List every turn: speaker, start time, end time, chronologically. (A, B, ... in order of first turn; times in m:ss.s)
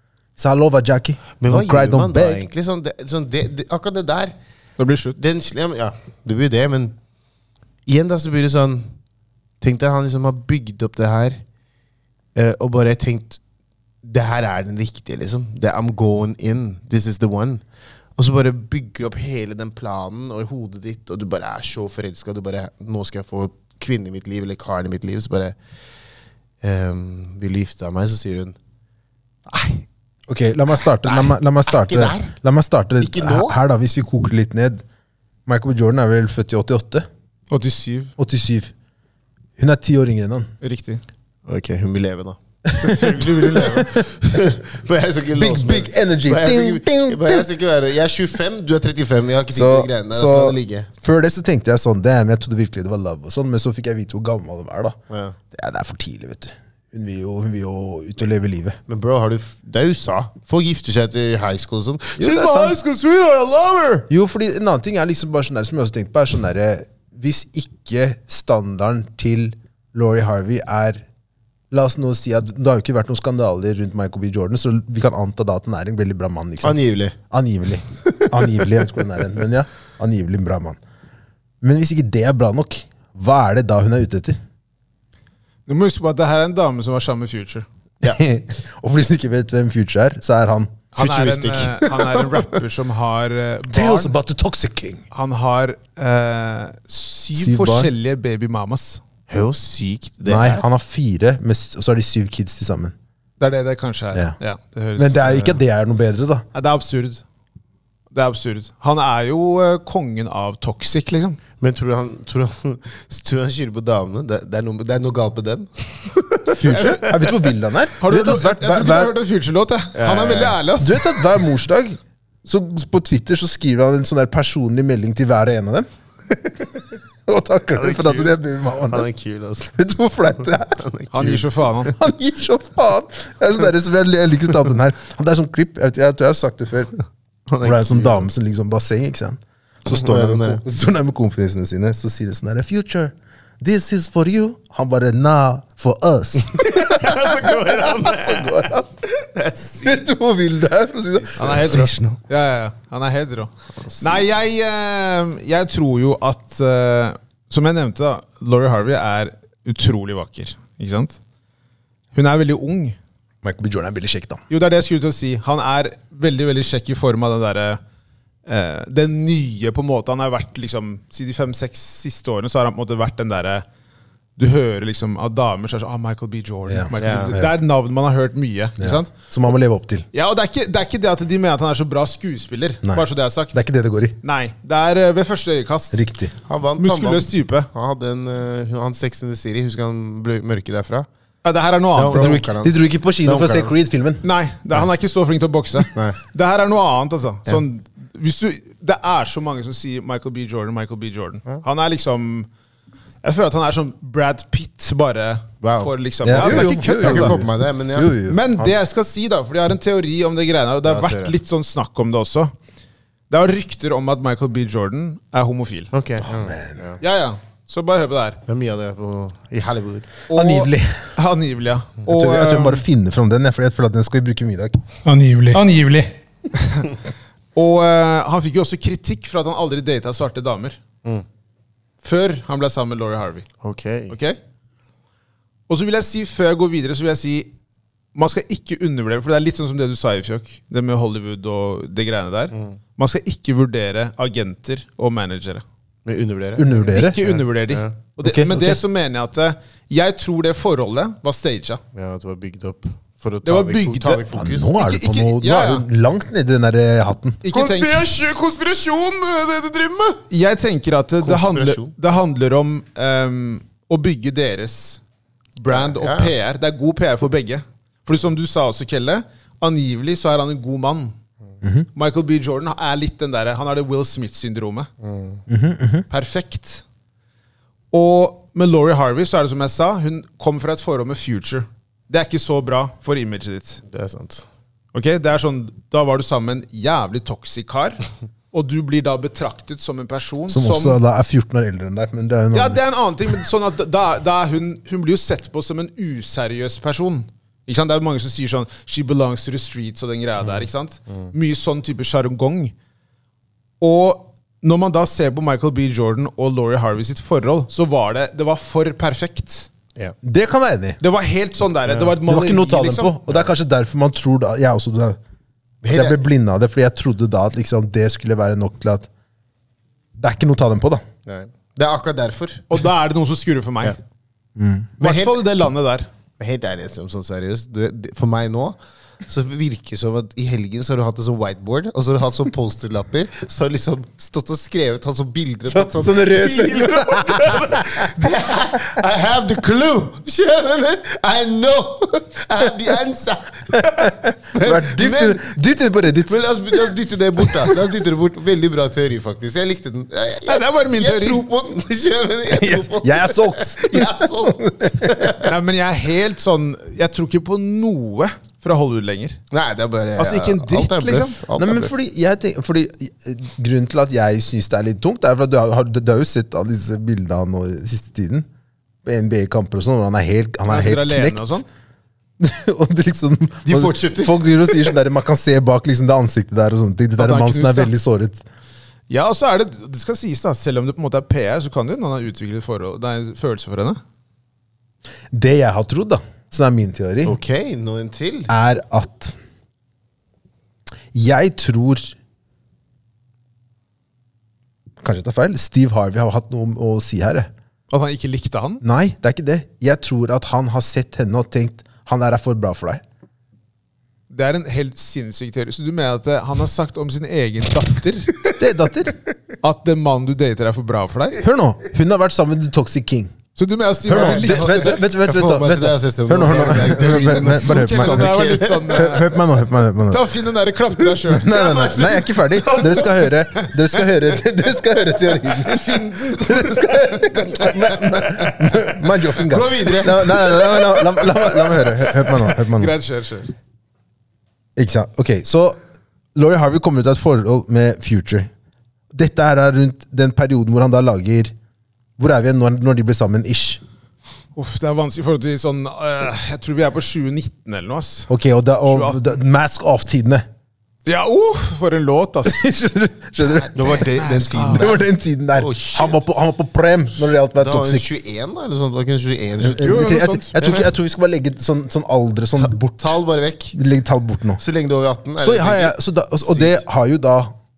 0:00.4-0:02.4 A
0:01.4-0:04.3 B
0:04.8-0:05.2 C
0:05.2-0:07.0 B
0:07.9-0:08.9 B
0:09.6-0:11.4 B
0:12.3-0:13.4 B
0:14.0-0:17.6 B
0:18.2-0:25.6 B
0:26.6-0:28.6 B
0:29.5-0:29.8 B
0:30.3-0:34.8 A
0:31.0-0:32.3 B
0:33.0-0:33.6 B
0:35.4-0:37.1 A
0:37.5-0:38.1 C
0:38.2-0:38.7 A
0:39.6-0:40.5 A
0:40.6-0:41.0 C
0:41.5-0:50.9 B
0:42.7-0:43.8 A
0:42.8-0:44.0 C
0:45.3-0:47.5 A
0:49.5-0:55.0 A
0:55.1-0:55.4 B
0:55.5-0:58.8 A
0:58.9-1:04.1 B
1:02.2-1:02.8 A
1:04.1-1:11.0 A
1:11.7-1:20.8 A
1:16.6-1:17.2 B
1:21.6-1:24.4 A
1:25.7-1:27.6 C
1:28.0-1:30.8 A
1:30.9-1:34.1 C
1:31.0-1:32.4 B
1:33.7-1:35.0 A
1:35.1-1:39.0 C
1:37.3-1:37.9 A
1:39.3-1:40.6 B
1:40.2-1:42.9 A
1:43.4-1:45.6 C
1:45.0-1:46.4 A
1:46.5-1:47.2 C
1:48.1-1:51.4 C
1:51.6-1:56.8 B
1:56.5-1:59.1 A
1:56.6-1:57.3 C
1:58.0-2:01.4 C
1:59.9-2:00.6 B
2:00.8-2:05.9 A
2:07.2-2:09.1 A
2:07.8-2:08.3 B
2:08.9-2:09.8 B
2:09.7-2:10.8 A
2:10.6-2:11.8 B
2:11.1-2:11.9 C
2:12.0-2:16.9 A
2:17.5-2:18.2 B
2:17.6-2:29.0 A
2:19.9-2:20.6 B
2:26.4-2:28.7 B
2:29.3-2:30.0 B
2:29.8-2:32.1 A
2:31.2-2:31.8 B
2:31.4-2:41.2 C
2:33.8-2:34.2 B
2:42.1-2:43.0 C
2:43.4-2:44.4 A
2:44.5-2:47.8 C
2:48.4-2:53.6 C
2:54.4-2:59.3 C
2:56.6-2:57.6 A
2:57.0-2:57.4 B
2:58.8-3:00.0 A
3:00.1-3:03.6 C
3:02.8-3:04.2 A
3:04.2-3:06.1 C
3:05.9-3:06.3 A
3:06.5-3:11.1 B
3:06.8-3:07.7 C
3:11.4-3:12.5 C
3:11.9-3:13.7 B
3:12.1-3:14.2 A
3:14.2-3:22.5 C
3:15.9-3:16.2 B
3:23.2-3:27.4 C
3:25.6-3:28.1 B
3:26.2-3:28.8 A
3:28.3-3:32.5 C
3:30.8-3:31.3 B
3:33.3-3:35.9 C
3:35.9-3:37.0 B
3:36.2-3:36.8 A
3:37.0-3:38.4 C
3:38.5-3:40.1 B
3:40.3-3:42.8 C
3:40.3-3:41.1 A
3:42.1-3:44.8 A
3:45.0-3:47.0 C
3:47.5-3:50.8 C
3:52.0-3:53.5 C
3:53.6-3:54.1 B
3:54.1-3:54.4 C
3:55.7-3:57.5 C
3:58.1-4:05.6 C
4:02.5-4:02.8 B
4:06.0-4:07.9 B
4:06.6-4:07.3 A
4:06.9-4:11.8 C
4:08.2-4:08.8 A
4:11.9-4:14.7 B
4:13.4-4:15.8 C
4:14.3-4:17.4 A
4:17.4-4:18.1 C
4:17.5-4:20.2 B
4:20.3-4:25.0 C
4:21.2-4:21.9 B
4:25.6-4:31.1 C
4:25.7-4:26.3 B
4:31.6-4:31.9 A
4:31.9-4:34.9 C
4:35.0-4:35.4 B
4:35.5-4:36.0 A
4:36.1-4:36.8 C
4:37.9-4:43.8 C
4:43.9-4:44.4 B
4:44.9-4:51.0 C
4:50.5-4:52.8 A
4:52.5-5:02.7 C
5:00.4-5:01.3 B
5:03.8-5:09.7 C
5:10.2-5:11.0 A
5:11.0-5:13.2 C
5:11.9-5:12.1 B
5:12.2-5:15.2 A
5:15.8-5:16.2 B
5:15.9-5:19.1 A
5:20.2-5:21.0 A
5:21.2-5:22.6 B
5:22.7-5:24.0 C
5:24.6-5:24.9 A
5:25.0-5:25.4 B
5:25.0-5:26.1 C
5:26.4-5:45.4 B
5:35.7-5:38.3 A
5:43.7-5:46.9 A
5:46.3-5:55.5 B
5:47.4-5:47.7 A
5:50.4-5:51.4 C
5:52.5-5:55.4 A
5:55.4-5:59.4 C
5:59.5-6:01.9 B
6:00.2-6:01.4 C
6:01.6-6:08.5 A
6:09.0-6:11.6 A
6:10.7-6:11.6 C
6:12.4-6:18.4 A
6:13.6-6:14.9 B
6:17.2-6:17.9 C
6:19.1-6:24.0 C
6:25.3-6:27.4 A
6:27.2-6:28.5 B
6:28.5-6:29.4 A
6:31.1-6:32.1 A
6:35.0-6:37.5 A
6:37.9-6:38.8 C
6:38.8-6:43.0 A
6:44.3-6:48.6 C
6:48.6-6:49.1 A
6:49.6-6:51.4 C
6:51.4-6:53.3 A
6:53.6-6:55.0 C
6:54.1-7:00.3 A
6:54.1-6:59.2 B
6:57.2-6:59.3 C
7:00.0-7:01.5 C
7:01.3-7:12.9 A
7:01.4-7:03.3 B
7:05.6-7:06.8 C
7:07.2-7:08.8 B
7:09.3-7:11.3 B
7:12.0-7:13.5 C
7:14.8-7:15.8 A
7:16.3-7:18.5 A
7:19.1-7:21.5 A
7:22.2-7:23.8 A
7:24.5-7:28.3 C
7:28.3-7:30.4 A
7:28.8-7:29.2 C
7:31.0-7:32.6 C
7:32.4-7:38.1 A
7:33.7-7:35.0 B
7:33.8-7:35.0 C
7:35.5-7:36.2 B
7:37.6-7:40.8 B
7:39.6-7:40.5 C
7:39.6-7:43.2 A
7:42.6-7:43.8 B
7:43.7-7:44.6 A
7:44.6-7:46.8 B
7:45.4-7:47.5 A